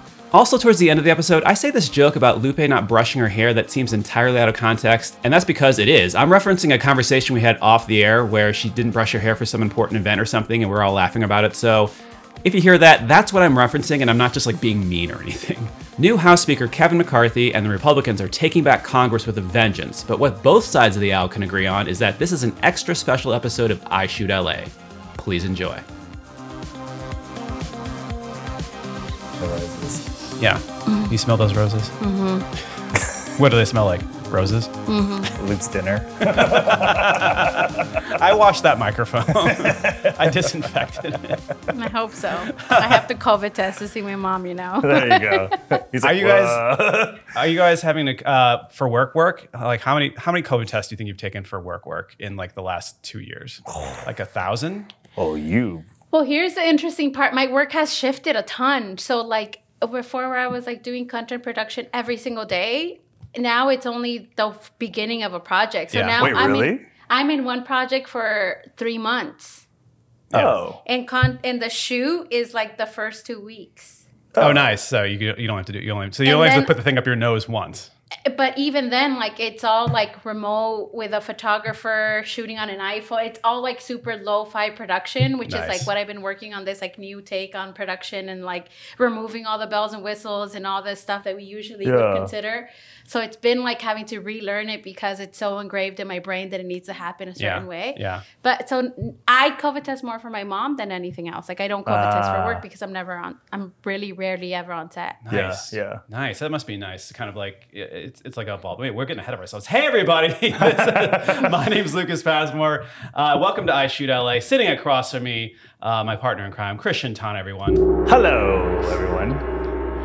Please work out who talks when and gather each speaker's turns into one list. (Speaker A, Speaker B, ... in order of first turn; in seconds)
Speaker A: 0.3-11.9, 12.4-25.8, 30.4-31.9, 33.2-34.7, 36.2-41.4, 42.6-43.0, 46.0-54.9, 65.9-66.3, 70.3-70.6, 74.4-77.9, 85.5-85.9, 97.4-98.2, 105.2-117.9
Speaker B: 29.4-30.1, 35.3-38.0, 39.5-40.5, 44.8-47.3, 53.7-54.0, 55.1-55.9, 66.2-66.8, 70.3-70.8, 74.3-74.7, 91.8-92.3, 101.8-102.6, 105.3-106.0, 110.6-111.5, 118.0-119.4
Speaker C: 30.9-31.1, 32.0-32.5, 34.9-35.3, 41.7-45.6, 56.1-69.6, 70.8-74.1, 76.2-76.7, 78.2-105.2